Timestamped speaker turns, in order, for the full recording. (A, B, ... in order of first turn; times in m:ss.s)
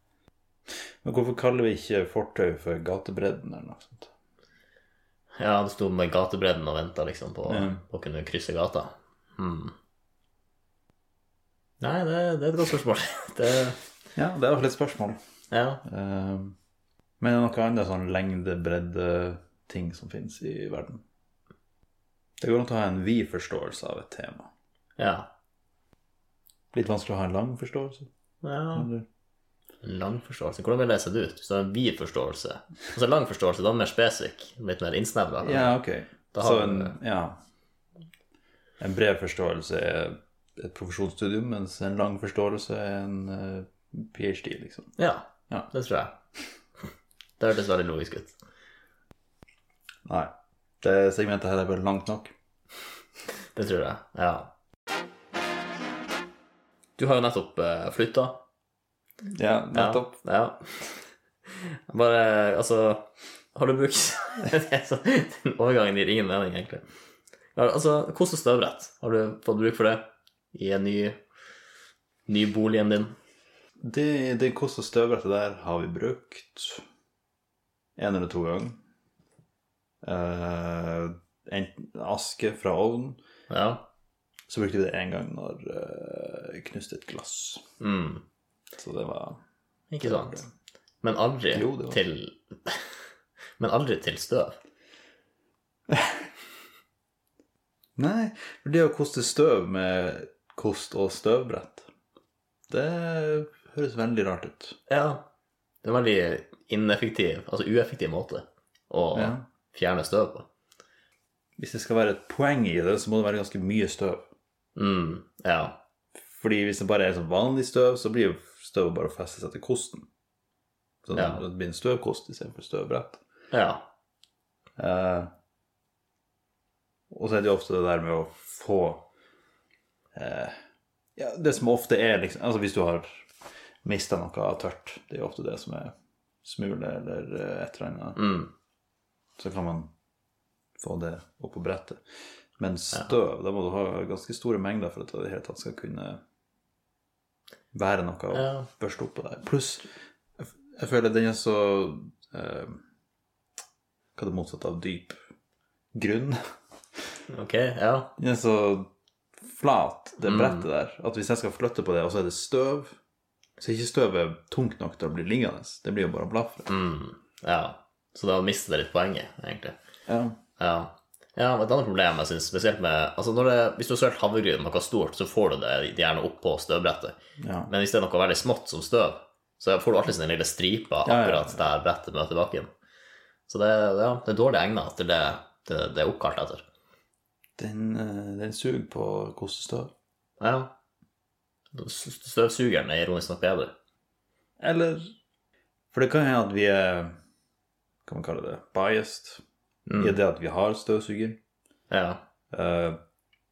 0:01.0-0:04.1 A
0:05.4-0:09.7 B
0:07.4-0:07.8 A
0:11.8-0:13.8 B
0:14.2-0:15.2 A
0:15.5-0:15.8 B
0:15.8-0:16.6 A
0:17.2-0:21.0 A
0:22.4-0:24.5 A
0:25.0-0:25.3 B
0:26.7-0:28.1 A
0:28.4-0:28.9 B
0:28.7-0:29.0 A
0:29.8-0:35.8 B
0:35.4-0:37.4 A
0:36.3-0:36.9 B
0:38.8-0:44.9 A
0:45.0-0:46.2 B
0:47.4-0:48.4 B
0:50.0-0:52.3 A
0:53.5-0:54.5 B
0:57.0-0:58.4 B
0:59.3-1:00.2 A
0:59.7-1:00.6 B
1:01.5-1:06.8 B
1:07.5-1:11.2 B
1:12.3-1:13.2 B
1:13.8-1:16.8 A
1:18.0-1:18.8 A
1:20.0-1:23.2 A
1:23.5-1:23.8 B
1:24.5-1:27.6 A
1:27.8-1:28.2 B
1:28.8-1:29.4 A
1:29.9-1:30.4 B
1:30.0-1:30.5 A
1:31.0-1:32.8 B
1:31.5-1:32.0 A
1:33.6-1:34.6 B
1:35.9-1:36.2 A
1:38.0-1:41.9 A
1:42.7-1:44.8 A
1:44.9-1:45.2 B
1:45.8-1:50.5 B
1:49.1-1:49.4 A
1:51.6-1:54.3 A
1:54.8-1:55.8 B
1:56.2-2:00.1 A
2:01.0-2:03.2 A
2:03.5-2:03.8 B
2:04.8-2:05.3 A
2:07.1-2:09.0 A
2:10.1-2:10.6 A
2:11.2-2:13.3 A
2:13.8-2:18.4 A
2:18.2-2:18.5 B
2:19.4-2:19.9 A
2:20.8-2:22.0 A
2:22.6-2:26.2 A
2:27.7-2:29.8 A
2:28.3-2:28.7 B
2:30.4-2:32.8 A
2:34.2-2:35.2 A
2:35.9-2:36.4 A
2:37.3-2:38.1 B
2:38.2-2:38.9 A
2:39.4-2:43.0 A
2:40.2-2:40.6 B
2:43.6-2:46.7 A
2:46.7-2:49.8 B
2:50.1-2:50.4 A
2:50.6-2:57.2 B
2:57.4-2:57.7 A
2:57.7-3:02.7 B
3:01.0-3:01.7 A
3:03.5-3:06.6 B
3:07.6-3:09.9 A
3:10.4-3:10.7 B
3:11.7-3:13.7 B
3:14.6-3:15.1 A
3:15.9-3:17.1 A
3:18.0-3:19.4 A
3:19.8-3:20.1 B
3:20.0-3:21.4 A
3:21.9-3:22.2 B
3:22.5-3:23.0 A